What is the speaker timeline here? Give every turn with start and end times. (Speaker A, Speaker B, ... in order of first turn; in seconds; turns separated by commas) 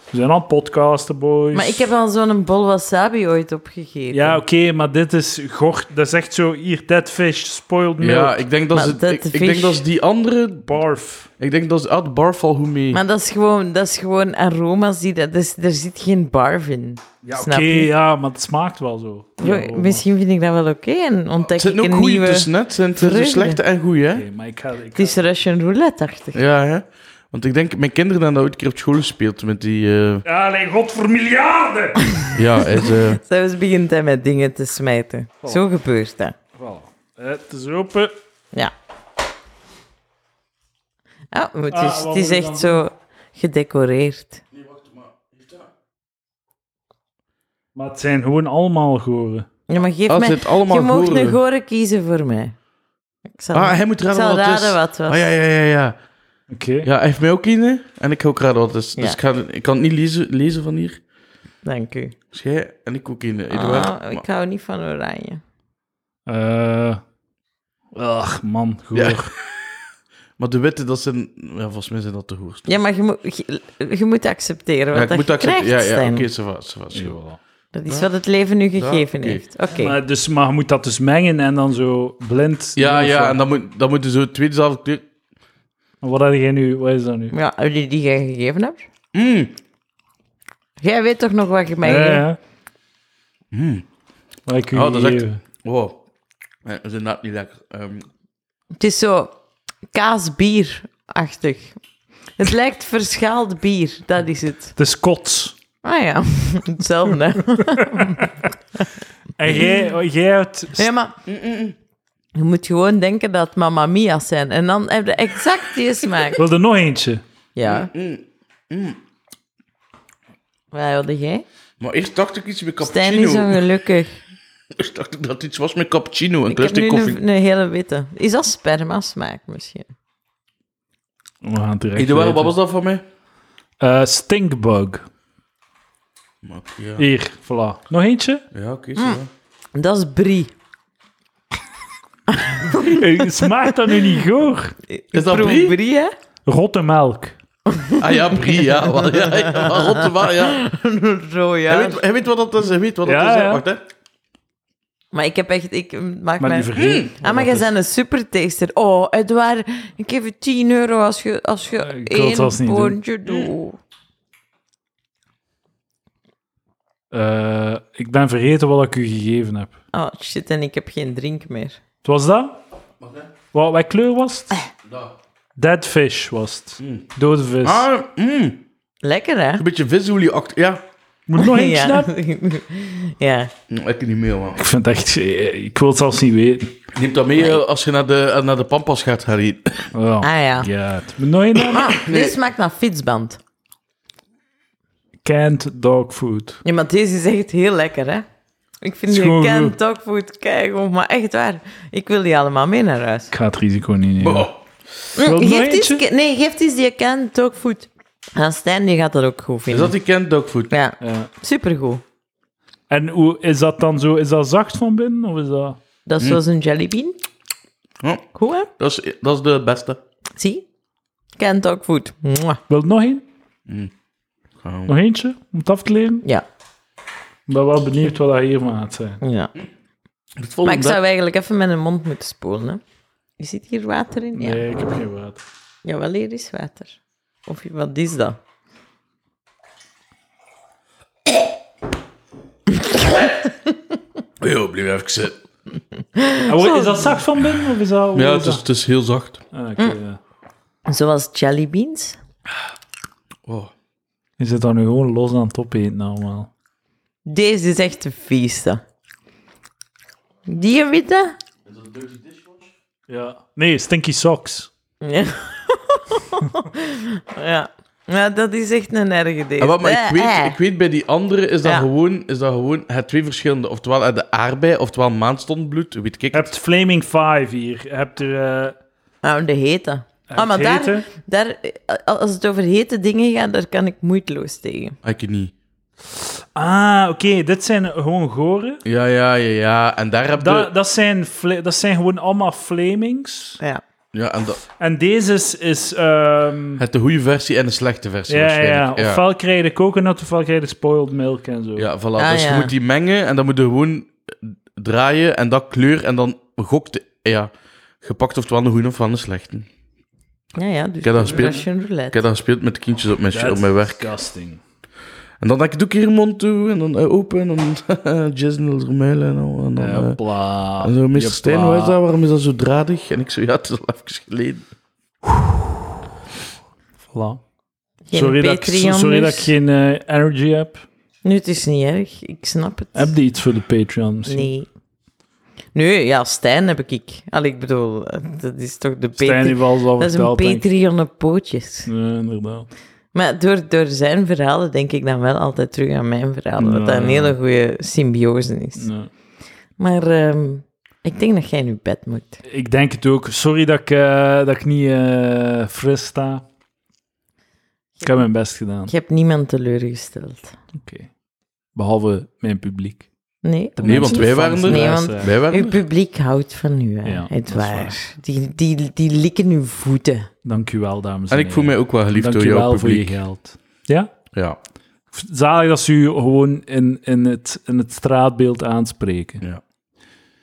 Speaker A: 0.1-1.9, Speaker B: 1.5-4.4, Speaker A: 4.1-8.4, Speaker C: 8.0-10.7, Speaker B: 8.7-9.8, Speaker A: 10.7-11.3, Speaker C: 11.4-13.0, Speaker B: 12.9-17.9, Speaker A: 17.2-20.0, Speaker B: 19.4-23.6, Speaker C: 21.4-24.2, Speaker A: 24.1-25.2, Speaker B: 24.9-26.4, Speaker C: 26.3-30.2, Speaker A: 30.2-32.1, Speaker B: 32.0-36.3, Speaker C: 32.3-33.2, Speaker A: 36.5-38.1, Speaker B: 41.3-44.4, Speaker A: 41.7-42.8, Speaker C: 44.5-45.7, Speaker A: 47.7-49.5, Speaker B: 49.7-52.5, Speaker C: 50.1-51.4, Speaker B: 53.3-55.3, Speaker C: 53.5-56.0, Speaker A: 56.5-56.9, Speaker C: 56.8-61.0, Speaker B: 61.6-62.1, Speaker C: 62.3-64.2, Speaker B: 63.5-65.4, Speaker A: 66.3-67.0, Speaker A: 67.9-69.3, Speaker C: 68.9-69.8, Speaker C: 70.4-72.8, Speaker B: 72.7-76.2, Speaker C: 74.9-77.2, Speaker A: 76.9-77.4, Speaker B: 77.7-80.0, Speaker C: 78.8-79.4, Speaker A: 79.7-83.4, Speaker C: 82.8-85.0, Speaker A: 86.0-87.3, Speaker B: 87.3-88.8, Speaker C: 89.1-89.5, Speaker B: 90.8-92.2, Speaker A: 91.8-92.4, Speaker C: 93.5-93.8, Speaker A: 94.5-95.4, Speaker C: 94.7-96.0, Speaker C: 96.6-98.0, Speaker B: 98.8-99.3, Speaker B: 99.9-101.8, Speaker B: 102.4-104.7, Speaker A: 104.8-105.5, Speaker B: 105.8-108.9, Speaker A: 107.8-108.3, Speaker A: 109.4-110.8, Speaker B: 110.8-111.2, Speaker C: 111.3-111.7, Speaker B: 112.3-116.4, Speaker A: 116.4-117.2, Speaker B: 117.5-117.9, Speaker C: 117.6-119.0, Speaker B: 120.7-121.4, Speaker C: 121.8-123.6, Speaker B: 122.8-124.1, Speaker C: 124.7-127.2, Speaker B: 126.5-129.9, Speaker A: 131.4-132.5, Speaker C: 131.9-133.0, Speaker A: 133.8-135.0, Speaker C: 136.4-137.1, Speaker A: 137.0-138.4, Speaker C: 138.5-139.3, Speaker B: 139.7-140.5, Speaker B: 142.3-144.1, Speaker A: 142.8-144.7, Speaker B: 144.9-146.1, Speaker C: 145.1-145.8, Speaker A: 146.4-147.3, Speaker B: 147.7-152.0, Speaker C: 148.0-150.6, Speaker C: 151.7-153.8, Speaker A: 153.0-153.6, Speaker B: 155.1-163.8, Speaker A: 156.4-157.7, Speaker C: 156.8-157.1, Speaker A: 161.8-163.0, Speaker A: 167.1-169.8, Speaker B: 169.9-171.8, Speaker A: 172.0-172.6, Speaker A: 173.5-174.6, Speaker C: 174.9-175.1, Speaker A: 175.6-177.8, Speaker C: 177.6-178.6, Speaker B: 179.0-179.6, Speaker C: 179.6-180.8, Speaker A: 181.3-182.1, Speaker B: 181.4-183.5, Speaker C: 183.7-184.6, Speaker A: 184.6-186.8, Speaker C: 186.9-189.9, Speaker A: 189.9-192.0, Speaker B: 190.2-190.7, Speaker B: 191.5-193.4, Speaker C: 192.1-192.4, Speaker A: 195.2-196.6, Speaker B: 196.6-198.2, Speaker B: 198.8-203.3, Speaker A: 199.1-199.7, Speaker A: 203.3-204.5, Speaker C: 204.2-204.6, Speaker A: 205.2-206.0, Speaker B: 205.2-209.9, Speaker C: 209.7-210.7, Speaker B: 210.7-212.0, Speaker A: 211.0-211.3, Speaker A: 212.9-215.8, Speaker B: 216.1-217.2, Speaker C: 218.0-218.3, Speaker B: 218.3-218.7, Speaker C: 218.8-220.0, Speaker B: 220.3-220.6, Speaker B: 221.4-222.6, Speaker A: 222.7-223.2, Speaker C: 224.6-224.9, Speaker A: 224.9-226.2, Speaker A: 227.5-229.2, Speaker B: 229.2-229.5, Speaker C: 230.4-231.0, Speaker B: 230.6-232.8, Speaker B: 233.4-234.6, Speaker A: 234.3-235.4, Speaker B: 235.8-238.4, Speaker B: 242.7-243.5, Speaker C: 244.4-245.4, Speaker B: 246.2-247.1, Speaker A: 246.4-248.6, Speaker C: 248.1-249.4, Speaker A: 249.5-250.2, Speaker B: 250.9-252.2, Speaker C: 253.4-253.7, Speaker A: 254.4-256.5, Speaker B: 257.2-258.8, Speaker B: 260.5-261.4, Speaker C: 261.7-262.7, Speaker A: 263.1-264.7, Speaker B: 265.0-270.6, Speaker C: 269.6-276.5, Speaker A: 276.3-278.7, Speaker B: 279.2-284.9, Speaker A: 280.3-281.1, Speaker C: 285.0-285.5, Speaker A: 286.2-288.8, Speaker C: 288.8-290.7, Speaker A: 290.4-293.6, Speaker C: 294.1-294.6, Speaker A: 294.8-296.8, Speaker C: 296.8-299.2, Speaker A: 298.3-301.9, Speaker C: 301.8-307.5, Speaker B: 302.2-302.7, Speaker C: 308.0-309.7, Speaker B: 310.6-312.2, Speaker C: 311.0-314.0, Speaker A: 311.3-311.6, Speaker A: 313.3-314.6, Speaker C: 315.4-320.2, Speaker A: 319.8-322.0, Speaker C: 320.8-324.6, Speaker A: 327.1-327.4, Speaker B: 328.1-329.5, Speaker A: 328.1-330.8, Speaker B: 331.2-333.1, Speaker A: 332.9-334.5, Speaker B: 334.3-334.7, Speaker B: 335.7-341.9, Speaker A: 339.2-340.7, Speaker A: 341.9-342.7, Speaker B: 343.1-348.9, Speaker A: 346.6-347.4, Speaker A: 348.8-349.1, Speaker B: 349.8-352.4, Speaker A: 352.5-356.4, Speaker A: 358.0-358.9, Speaker B: 358.9-360.6, Speaker A: 360.7-361.1, Speaker A: 361.7-363.1, Speaker B: 363.4-370.3, Speaker A: 363.8-365.3, Speaker C: 363.8-365.8, Speaker A: 367.0-367.9, Speaker A: 370.4-374.1, Speaker C: 371.3-373.2, Speaker A: 375.1-379.4